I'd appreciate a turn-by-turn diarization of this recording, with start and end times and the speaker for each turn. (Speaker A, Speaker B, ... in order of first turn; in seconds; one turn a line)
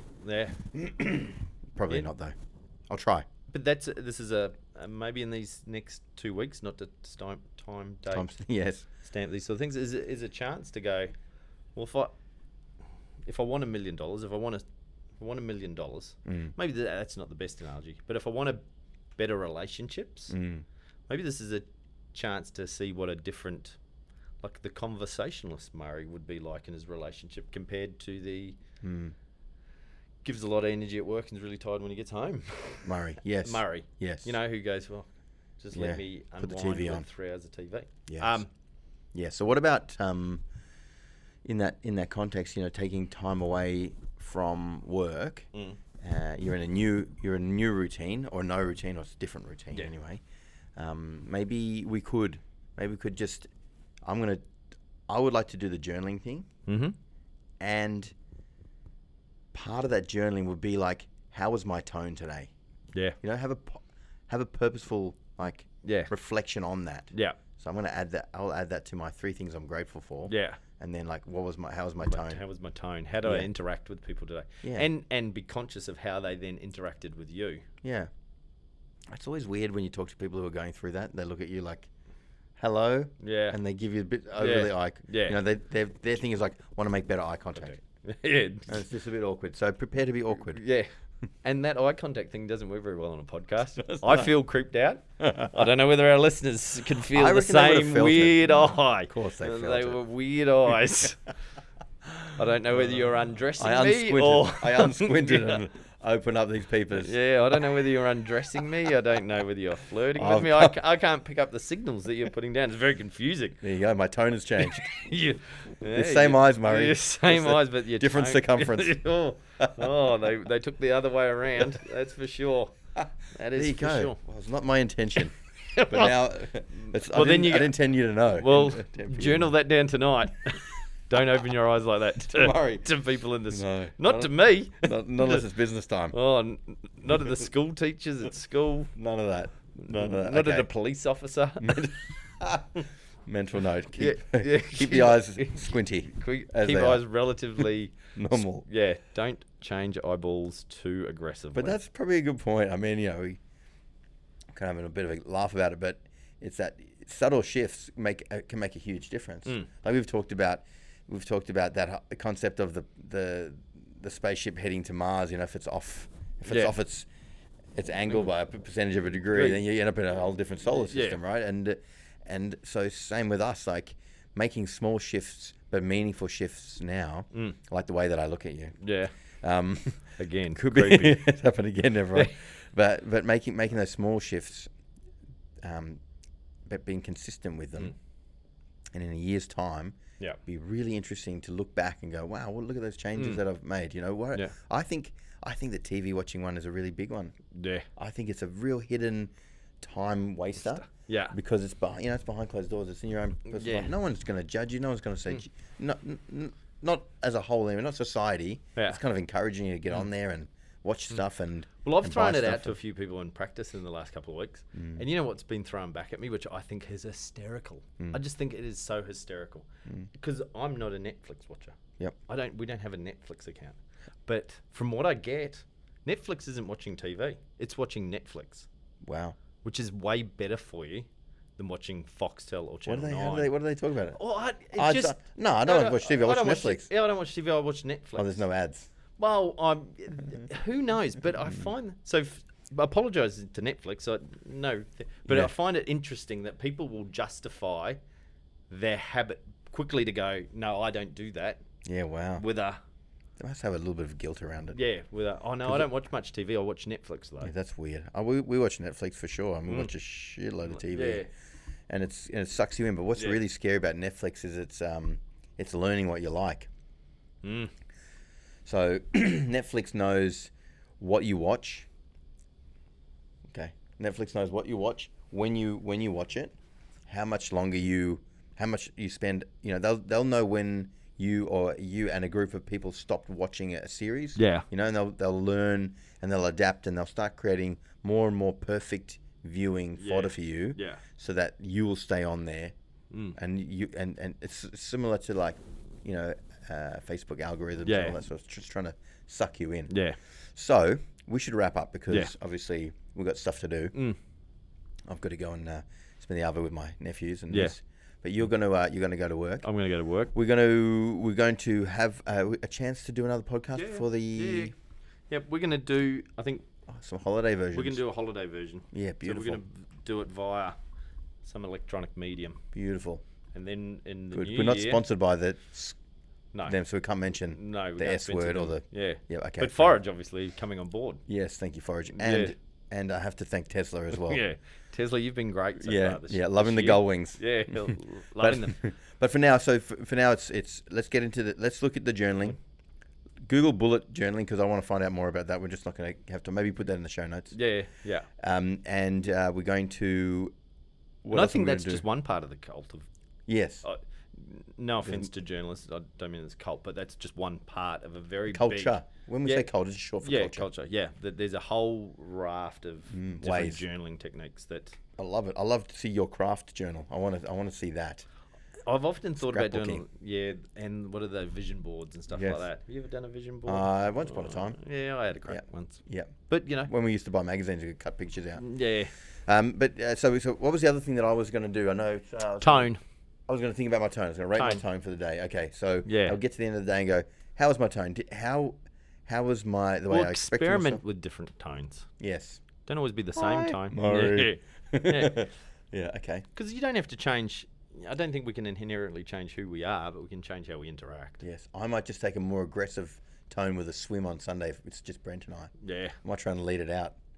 Speaker A: 0.2-0.6
Speaker B: 0.8-2.4
Speaker B: 2.9-3.2
Speaker A: 3.5-8.3
Speaker B: 8.1-8.9
Speaker A: 9.0-11.1
Speaker A: 11.8-12.1
Speaker A: 13.2-14.7
Speaker A: 15.2-18.6
Speaker B: 16.3-16.5
Speaker A: 19.2-20.3
Speaker B: 20.3-20.6
Speaker A: 21.1-23.8
Speaker A: 24.4-28.6
Speaker B: 28.8-29.1
Speaker A: 30.2-35.1
Speaker B: 32.8-34.4
Speaker A: 35.6-38.5
Speaker B: 35.7-37.1
Speaker B: 38.1-38.4
Speaker B: 39.1-40.4
Speaker B: 41.5-45.5
Speaker A: 45.5-45.8
Speaker B: 46.0-50.2
Speaker B: 50.8-53.5
Speaker B: 54.0-54.4
Speaker B: 55.1-56.5
Speaker A: 56.7-57.0
Speaker B: 57.6-58.1
Speaker B: 59.5-62.5
Speaker B: 63.2-72.4
Speaker A: 65.8-66.1
Speaker A: 67.1-67.4
Speaker A: 70.3-70.6
Speaker A: 72.1-77.7
Speaker B: 73.2-73.5
Speaker B: 74.6-74.9
Speaker B: 77.8-78.1
Speaker B: 79.1-81.9
Speaker B: 82.6-87.8
Speaker A: 83.2-83.6
Speaker A: 84.4-85.4
Speaker A: 87.6-88.8
Speaker B: 88.7-90.6
Speaker A: 90.3-90.9
Speaker A: 91.4-101.3
Speaker B: 93.8-94.3
Speaker B: 95.2-95.5
Speaker B: 97.1-100.0
Speaker A: 102.2-105.6
Speaker B: 103.6-107.1
Speaker A: 107.0-113.6
Speaker B: 110.2-110.8
Speaker B: 113.6-115.1
Speaker A: 114.6-122.8
Speaker B: 115.9-119.0
Speaker B: 119.6-119.9
Speaker B: 123.0-129.5
Speaker A: 123.3-124.2
Speaker A: 125.7-126.3
Speaker A: 126.8-135.4
Speaker B: 132.3-132.9
Speaker B: 133.5-136.2
Speaker A: 136.1-138.9
Speaker B: 138.9-140.7
Speaker A: 139.8-141.9
Speaker B: 141.6-147.1
Speaker A: 144.0-151.8
Speaker B: 148.2-148.7
Speaker B: 151.5-153.4
Speaker B: 154.6-167.1
Speaker A: 166.5-166.8
Speaker B: 167.8-178.8
Speaker A: 169.3-169.6
Speaker A: 170.9-171.2
Speaker A: 178.8-179.1
Speaker B: 179.4-184.7
Speaker A: 180.2-181.3
Speaker B: 185.6-186.0
Speaker B: 186.7-187.9
Speaker B: 188.9-197.3
Speaker A: 193.2-193.4
Speaker A: 197.5-197.9
Speaker B: 198.0-212.8
Speaker A: 200.7-201.3
Speaker A: 203.5-203.9
Speaker A: 211.8-221.8
Speaker B: 214.8-215.0
Speaker A: 222.3-228.7
Speaker B: 229.0-229.4
Speaker A: 229.6-233.5
Speaker B: 232.9-234.2
Speaker A: 234.1-238.4
Speaker B: 234.7-236.9
Speaker B: 238.2-238.9
Speaker A: 239.2-248.0
Speaker A: 248.7-251.6
Speaker B: 251.8-252.5
Speaker A: 252.4-252.8
Speaker B: 253.4-254.8
Speaker A: 254.7-257.5
Speaker B: 255.6-255.9
Speaker B: 257.4-261.3
Speaker A: 260.7-261.3
Speaker B: 261.9-266.7
Speaker A: 267.4-267.7
Speaker B: 268.7-271.9
Speaker B: 273.5-276.5
Speaker B: 277.1-292.7
Speaker A: 284.4-284.7
Speaker A: 290.0-291.0
Speaker A: 293.1-293.4
Speaker B: 293.3-300.0
Speaker A: 297.9-298.2
Speaker A: 299.9-300.2
Speaker B: 300.6-303.9
Speaker A: 303.9-304.2
Speaker B: 305.1-309.7
Speaker A: 309.6-310.3
Speaker B: 310.3-314.7
Speaker A: 313.8-314.7
Speaker A: 315.3-316.7
Speaker B: 316.9-318.0
Speaker A: 317.7-320.8
Speaker B: 318.9-319.6
Speaker A: 321.4-322.6
Speaker B: 322.7-323.2
Speaker A: 323.5-325.0
Speaker B: 324.3-326.0
Speaker B: 326.6-329.9
Speaker A: 327.5-331.2
Speaker B: 331.3-334.4
Speaker A: 332.1-332.6
Speaker A: 334.1-338.8
Speaker B: 335.8-342.6
Speaker B: 343.4-347.5
Speaker A: 347.5-348.3
Speaker B: 348.4-350.5
Speaker B: 351.2-352.0
Speaker A: 351.3-353.1
Speaker B: 353.5-353.9
Speaker A: 353.8-359.7
Speaker B: 355.0-355.3
Speaker B: 358.5-360.7
Speaker A: 360.2-365.0
Speaker B: 363.1-363.9
Speaker B: 365.2-368.3
Speaker A: 368.9-376.9
Speaker B: 369.4-370.1
Speaker B: 372.3-372.6
Speaker B: 373.7-374.8
Speaker B: 375.4-376.3
Speaker B: 376.9-378.6
Speaker A: 378.6-379.1
Speaker B: 379.5-382.9
Speaker A: 382.6-383.0
Speaker B: 383.5-388.8
Speaker A: 384.6-384.8
Speaker A: 386.1-386.4
Speaker B: 389.3-391.0
Speaker A: 390.1-392.1
Speaker B: 392.2-392.6
Speaker A: 392.9-395.4
Speaker B: 393.4-396.5
Speaker A: 396.6-401.4
Speaker B: 401.4-407.2
Speaker A: 405.8-406.2